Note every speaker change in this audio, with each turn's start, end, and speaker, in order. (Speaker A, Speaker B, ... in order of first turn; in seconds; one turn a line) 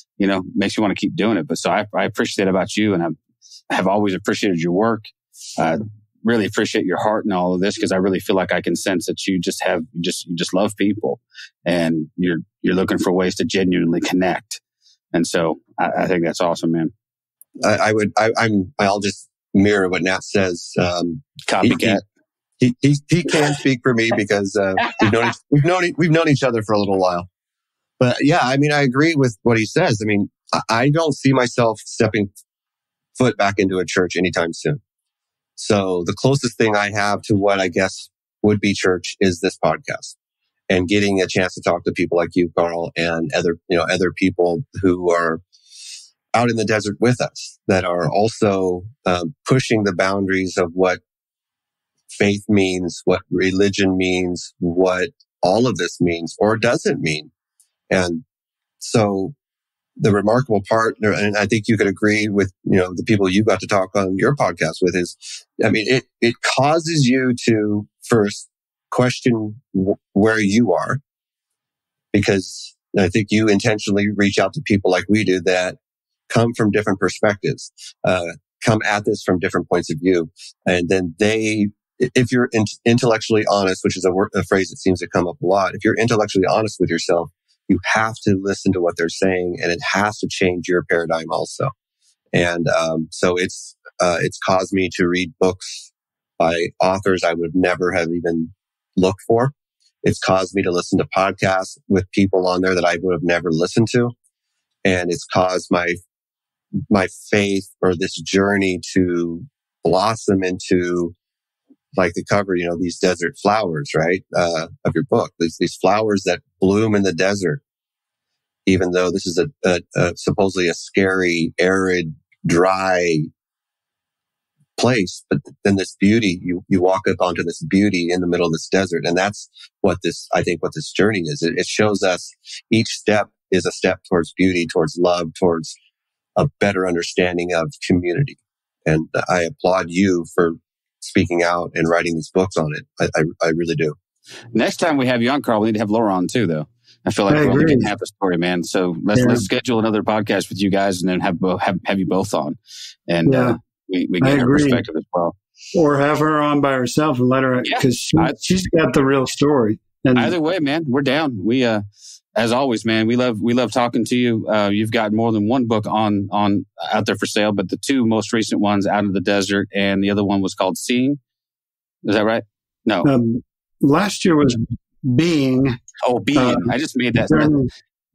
Speaker A: 0.2-3.1
Speaker A: 3.7-14.6
Speaker A: 15.1-16.9
Speaker B: 17.6-22.0
Speaker A: 21.4-22.0
Speaker B: 22.6-27.3
Speaker B: 28.0-32.3
Speaker B: 33.2-34.8
Speaker B: 35.6-40.1
Speaker B: 40.7-45.4
Speaker B: 46.3-51.0
Speaker B: 52.1-57.3
Speaker B: 57.9-58.2
Speaker B: 58.8-59.3
Speaker B: 60.0-71.0
Speaker B: 72.1-75.8
Speaker B: 76.3-91.7
Speaker B: 92.3-104.1
Speaker B: 104.8-106.0
Speaker B: 106.9-111.1
Speaker B: 111.9-117.6
Speaker B: 118.7-123.3
Speaker B: 124.8-135.8
Speaker B: 136.3-143.9
Speaker A: 144.5-152.6
Speaker C: 147.3-147.9
Speaker C: 149.2-149.4
Speaker A: 153.1-155.3
Speaker C: 153.2-153.6
Speaker C: 154.2-154.8
Speaker C: 155.7-160.3
Speaker A: 157.6-158.3
Speaker A: 160.1-161.8
Speaker A: 162.3-171.2
Speaker A: 172.0-173.1
Speaker C: 173.0-175.8
Speaker A: 176.0-177.5
Speaker C: 176.3-177.7